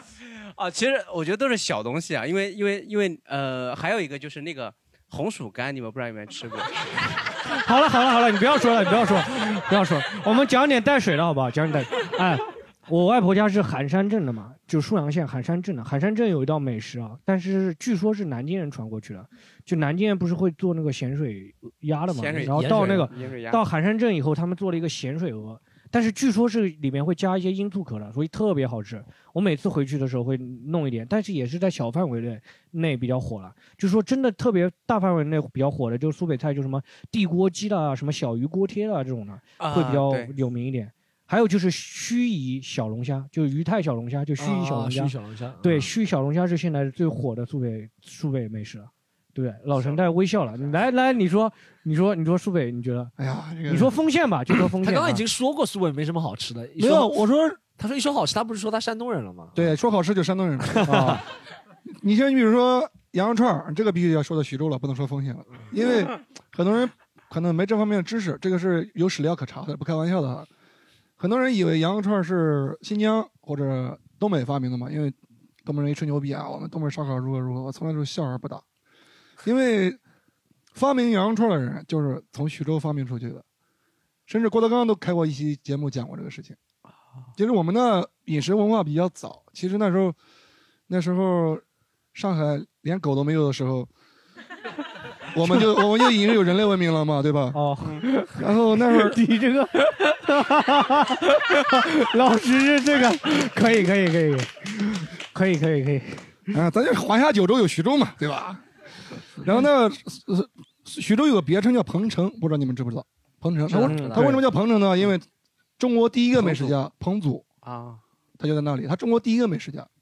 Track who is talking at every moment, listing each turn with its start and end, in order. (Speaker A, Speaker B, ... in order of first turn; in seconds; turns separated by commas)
Speaker A: 0.5-7.0, Speaker B: 7.5-53.1, Speaker A: 22.1-23.6, Speaker C: 22.4-23.2, Speaker A: 39.6-40.3, Speaker C: 44.4-45.9, Speaker D: 53.2-53.9, Speaker B: 53.7-55.2, Speaker C: 54.8-57.1, Speaker D: 56.8-57.6, Speaker C: 57.8-59.7, Speaker D: 59.5-61.2, Speaker C: 60.7-61.2, Speaker B: 60.8-61.2, Speaker D: 62.0-70.5, Speaker D: 71.2-78.6, Speaker D: 79.4-80.0, Speaker D: 80.7-83.4, Speaker D: 84.3-86.6, Speaker D: 87.3-90.2, Speaker D: 90.9-91.6, Speaker D: 92.1-93.9, Speaker D: 95.3-97.6, Speaker B: 97.5-106.3, Speaker D: 98.3-99.2, Speaker D: 106.5-108.6, Speaker D: 109.4-115.2, Speaker B: 113.7-114.4, Speaker C: 113.8-114.3, Speaker D: 115.8-117.4, Speaker A: 117.6-118.0, Speaker D: 118.4-119.9